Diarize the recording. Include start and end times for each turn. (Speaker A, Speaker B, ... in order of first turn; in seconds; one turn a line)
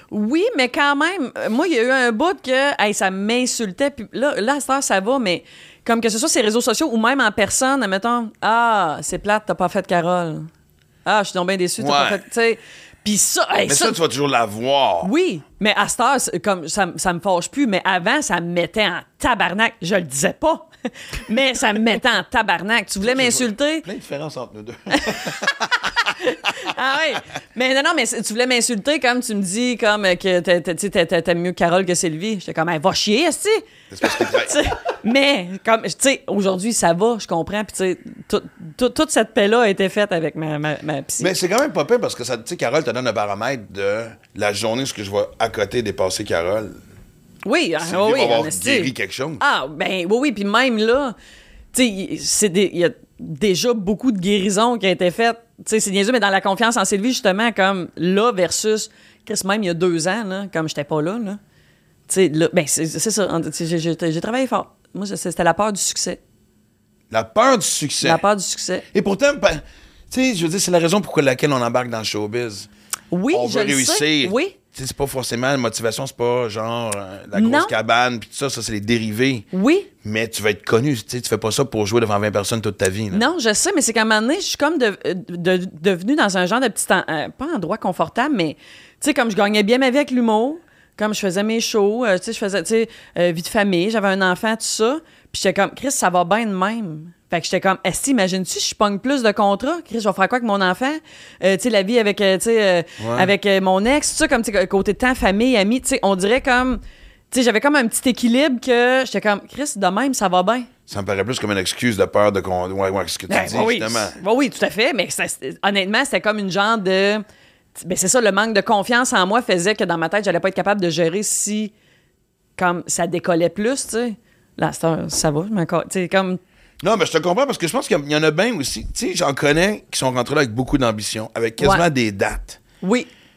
Speaker A: 0.1-10.5
Speaker A: 11.1-14.0
Speaker B: 11.8-12.2
Speaker B: 13.7-15.1
Speaker A: 15.0-23.9
Speaker B: 23.0-26.5
Speaker A: 24.9-41.3
Speaker B: 33.9-34.6
Speaker B: 41.2-46.8
Speaker A: 47.5-51.1
Speaker B: 47.8-49.4
Speaker A: 51.7-61.4
Speaker A: 62.1-66.2
Speaker B: 67.1-68.2
Speaker A: 68.0-68.8
Speaker B: 68.9-72.7
Speaker A: 73.1-74.6
Speaker B: 73.3-79.5
Speaker A: 77.3-77.7
Speaker A: 79.5-79.9
Speaker B: 80.0-83.2
Speaker A: 83.1-110.7
Speaker B: 103.0-103.3
Speaker B: 110.9-114.2
Speaker A: 113.3-117.2
Speaker A: 117.8-121.7
Speaker A: 122.6-126.4
Speaker B: 126.8-132.6
Speaker A: 131.6-131.8
Speaker A: 132.8-133.1